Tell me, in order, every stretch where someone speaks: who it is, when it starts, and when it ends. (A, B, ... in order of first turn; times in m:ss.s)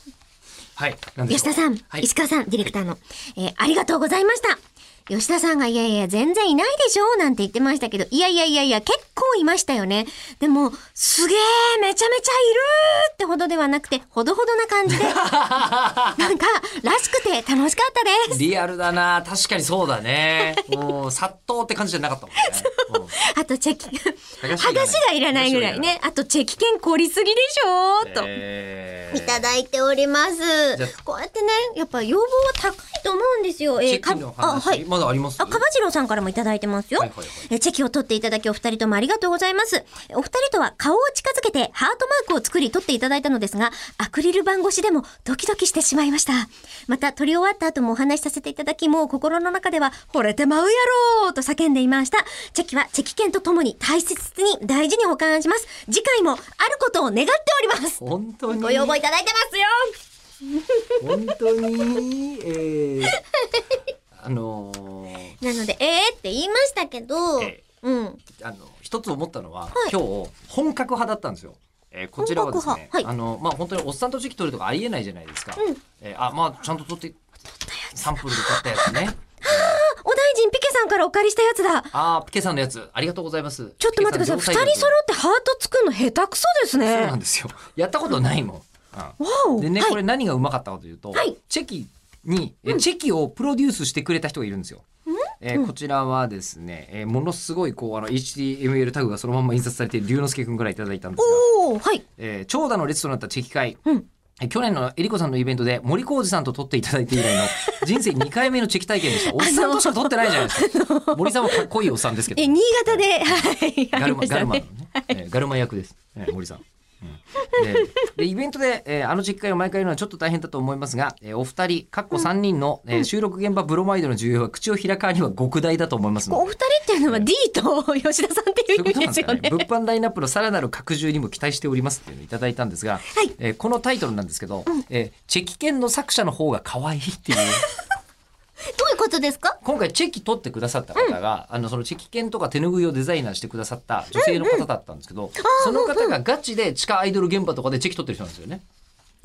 0:00.8-0:02.1 A
0:01.3-0:15.2 B
0:14.9-0:16.3 A
0:16.2-0:18.4 B
0:18.3-0:23.2 A
0:22.4-0:28.4 B
0:24.4-0:26.0 A
0:28.0-0:29.5 A
0:29.1-0:34.8 B
0:33.8-0:35.6 A
0:35.4-1:00.0 B
0:37.0-0:37.4 A
0:58.0-0:59.0 A
1:00.6-1:01.0 B
1:01.0-1:03.2 A
1:03.1-1:03.8 B
1:04.2-1:05.4 A
1:05.4-1:08.2 B
1:08.4-1:17.2 A
1:12.2-1:13.1 B
1:17.7-1:21.9 B
1:17.9-1:19.8 A
1:21.9-1:24.9 A
1:23.8-1:27.2 B
1:26.8-1:34.8 A
1:29.2-1:30.0 B
1:35.1-1:35.7 B
1:35.4-1:41.4 A
1:41.2-1:42.0 B
1:42.2-1:43.8 A
1:44.4-2:06.5 A
1:47.2-1:47.8 B
1:49.1-1:51.7 B
1:52.3-1:55.2 B
1:57.5-1:58.1 B
2:06.3-2:09.7 B
2:08.7-2:17.6 A
2:18.7-2:19.6 B
2:19.6-2:28.6 A
2:24.1-2:24.7 B
2:25.4-2:26.2 B